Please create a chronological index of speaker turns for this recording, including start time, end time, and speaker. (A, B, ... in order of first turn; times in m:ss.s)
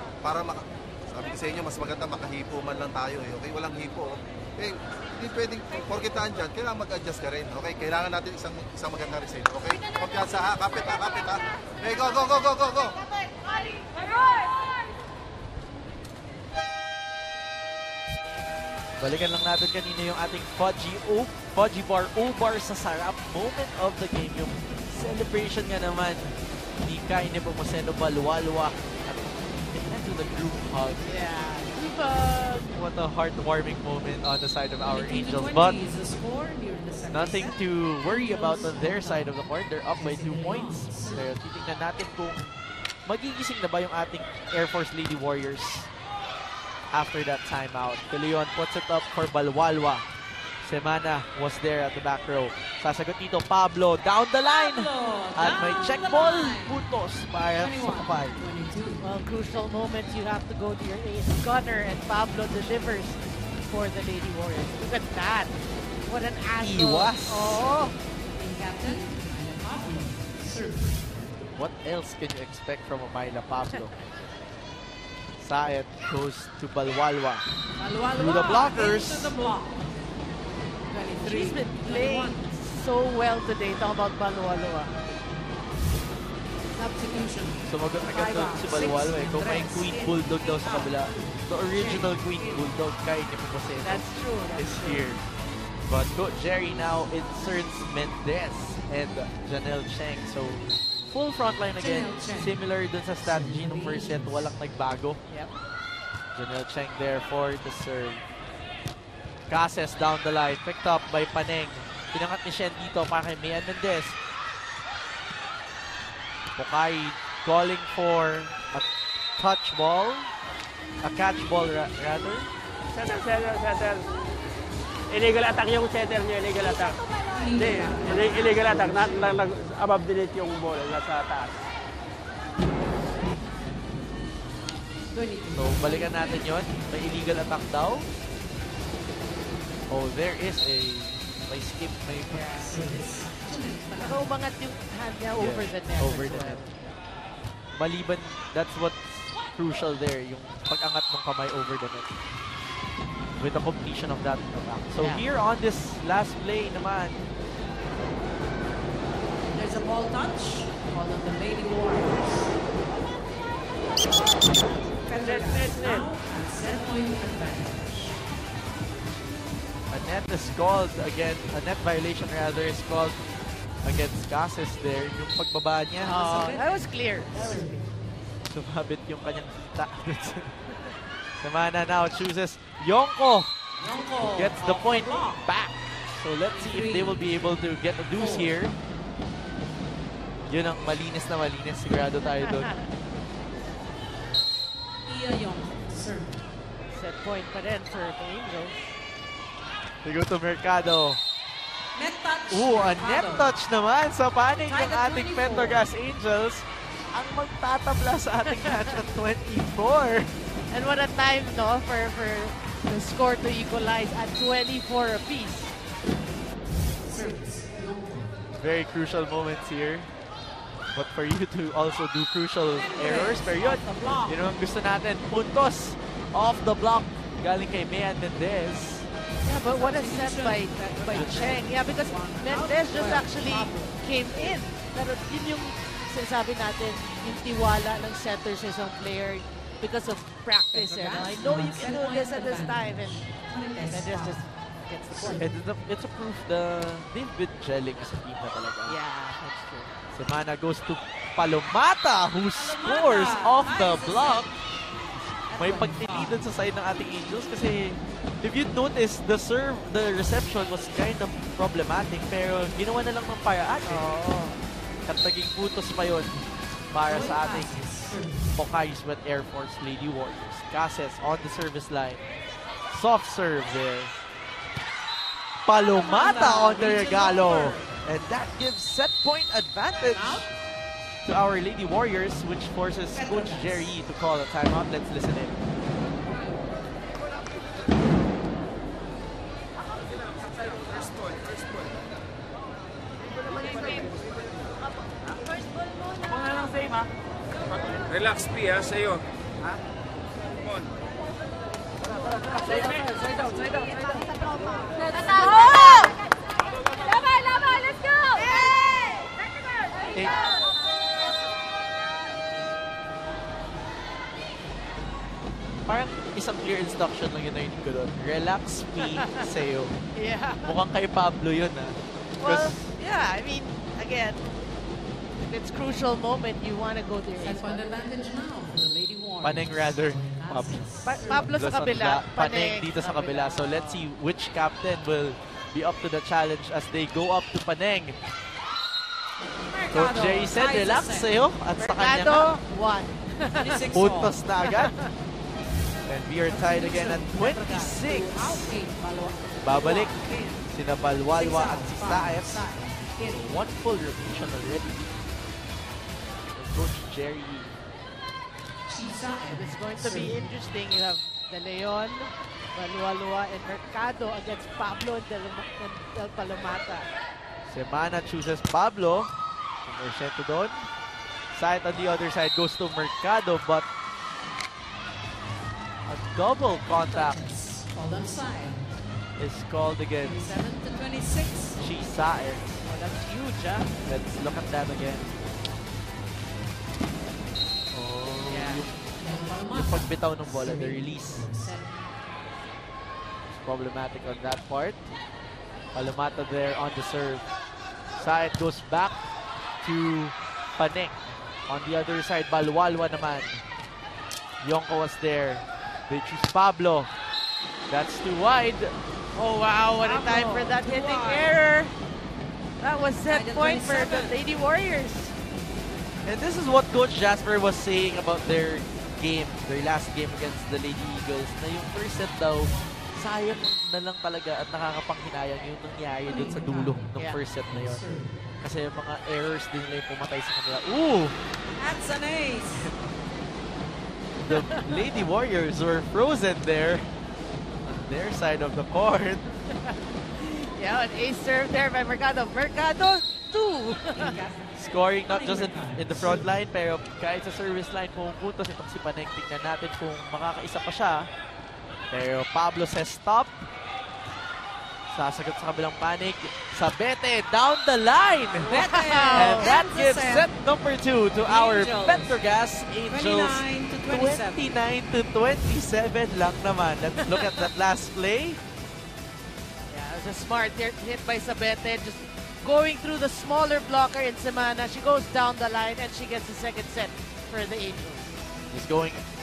0:00.2-0:13.0 A
0:19.0-0:31.1 B
0:31.0-0:32.7 C
0:32.7-0:35.8 B
0:34.8-0:39.3 D
0:37.1-0:42.5 B
0:39.9-0:41.3 D
0:43.0-0:45.9 B
0:46.9-0:50.0 B
0:50.6-0:58.4 B
0:54.4-0:56.8 D
0:57.6-0:59.0 D
0:59.0-1:05.5 C
1:06.1-1:08.0 C
1:06.6-1:07.6 B
1:08.4-1:11.3 D
1:11.5-1:13.9 B
1:15.4-1:17.4 B
1:17.8-1:19.8 D
1:18.1-1:19.3 B
1:20.9-1:22.5 D
1:21.2-1:25.0 C
1:26.7-1:32.7 D
1:27.6-1:35.2 B
1:33.8-1:35.1 C
1:35.9-1:45.2 B
1:41.8-1:42.5 D
1:43.2-1:44.4 D
1:45.3-1:45.5 C
1:46.3-1:48.2 B
1:49.5-1:54.2 B
1:56.6-1:58.8 B
1:59.4-2:00.3 B
2:01.0-2:02.5 B
2:02.9-2:04.0 E
2:05.1-2:07.0 E
2:07.3-2:09.2 D
2:07.6-2:11.6 E
2:15.1-2:16.6 D
2:15.5-2:18.1 B
2:19.9-2:22.5 B
2:22.3-2:22.7 C
2:22.6-2:24.3 D
2:24.0-2:26.9 C
2:25.4-2:26.6 B
2:27.7-2:32.1 B
2:33.4-2:37.2 B
2:35.0-2:35.2 C
2:39.5-2:42.5 D
2:45.0-2:48.2 D
2:45.1-2:46.9 C
2:49.9-2:53.2 B
2:53.8-2:56.2 B
2:56.0-2:57.7 D
2:56.0-2:57.9 C
2:58.5-3:00.6 B
3:00.7-3:00.9 C
3:01.4-3:03.6 B
3:03.8-3:05.4 D
3:04.2-3:08.8 B
3:06.5-3:07.6 D
3:08.2-3:08.5 D
3:10.5-3:12.7 B
3:12.2-3:12.9 C
3:15.0-3:16.4 D
3:16.9-3:18.9 C
3:20.0-3:21.2 B
3:21.9-3:23.5 D
3:22.5-3:30.3 B
3:24.6-3:25.8 D
3:28.6-3:29.0 C
3:30.7-3:35.7 C
3:37.0-3:38.4 D
3:38.6-3:40.1 B
3:40.9-3:49.1 B
3:42.6-3:44.4 D
3:49.4-4:03.3 C
3:49.7-3:54.0 D
3:51.1-3:51.5 B
4:00.7-4:04.4 D
4:03.8-4:05.5 C
4:05.1-4:05.5 D
4:05.4-4:09.0 B
4:08.9-4:09.9 C
4:10.1-4:14.5 B
4:12.6-4:14.5 D
4:15.5-4:16.4 D
4:15.6-4:24.1 B
4:23.8-4:24.6 C
4:25.0-4:27.9 B
4:27.1-4:28.5 D
4:28.5-4:32.2 B
4:32.9-4:34.1 B
4:35.6-4:40.5 B
4:35.7-4:38.0 D
4:40.0-4:40.4 D
4:41.2-4:45.6 B
4:43.1-4:43.9 D
5:02.5-5:04.2 C
5:04.8-5:06.1 C
5:10.1-5:10.4 B
5:15.9-5:20.0 B
5:19.0-5:19.5 C
5:20.2-5:20.7 C
5:20.6-5:22.9 B
5:22.4-5:24.5 C
5:25.4-5:27.8 C
5:27.4-5:31.4 D
5:29.4-5:38.2 B
5:31.0-5:34.0 C
5:39.7-5:41.3 D
5:39.9-5:42.5 B
5:41.8-5:43.8 C
5:43.5-5:44.4 D
5:43.9-5:44.9 B
5:44.6-5:45.1 C
5:46.1-5:48.7 B
5:46.5-5:50.7 D
5:49.6-5:52.6 B
5:51.3-5:53.5 D
5:53.2-5:55.1 B
5:56.5-5:57.8 B
5:58.9-6:00.5 D
5:59.5-6:07.1 C
6:07.7-6:09.3 B
6:09.8-6:10.9 B
6:11.5-6:13.9 B
6:16.0-6:17.4 B
6:17.0-6:18.8 D
6:19.4-6:20.4 B
6:20.2-6:21.8 D
6:21.8-6:22.8 B
6:22.8-6:24.0 C
6:24.0-6:25.3 B
6:27.9-6:29.0 B
6:28.5-6:28.8 C
6:29.2-6:31.9 D
6:29.7-6:31.5 B
6:33.5-6:35.1 B
6:35.9-6:37.6 B
6:38.2-6:39.3 B
6:39.8-6:43.6 B
6:44.6-6:47.1 B
6:47.9-6:48.9 B
6:49.4-6:51.9 C
6:50.0-6:51.6 D
6:52.8-6:55.3 C
6:53.3-6:54.4 D
6:56.2-7:08.0 B
7:06.3-7:07.1 D
7:07.6-7:08.4 D
7:08.6-7:11.4 B
7:11.8-7:12.9 D
7:14.4-7:17.0 B
7:14.5-7:15.2 C
7:17.8-7:19.5 B
7:19.7-7:24.4 C
7:24.2-7:26.4 D
7:24.8-7:31.3 B
7:32.1-7:33.6 B
7:35.1-7:38.7 B
7:38.5-7:39.7 C
7:38.6-7:40.5 D
7:39.3-7:48.6 B
7:41.4-7:42.4 D
7:43.1-7:44.7 D
7:47.3-7:47.6 C
7:49.9-7:58.3 C
7:58.7-7:59.2 B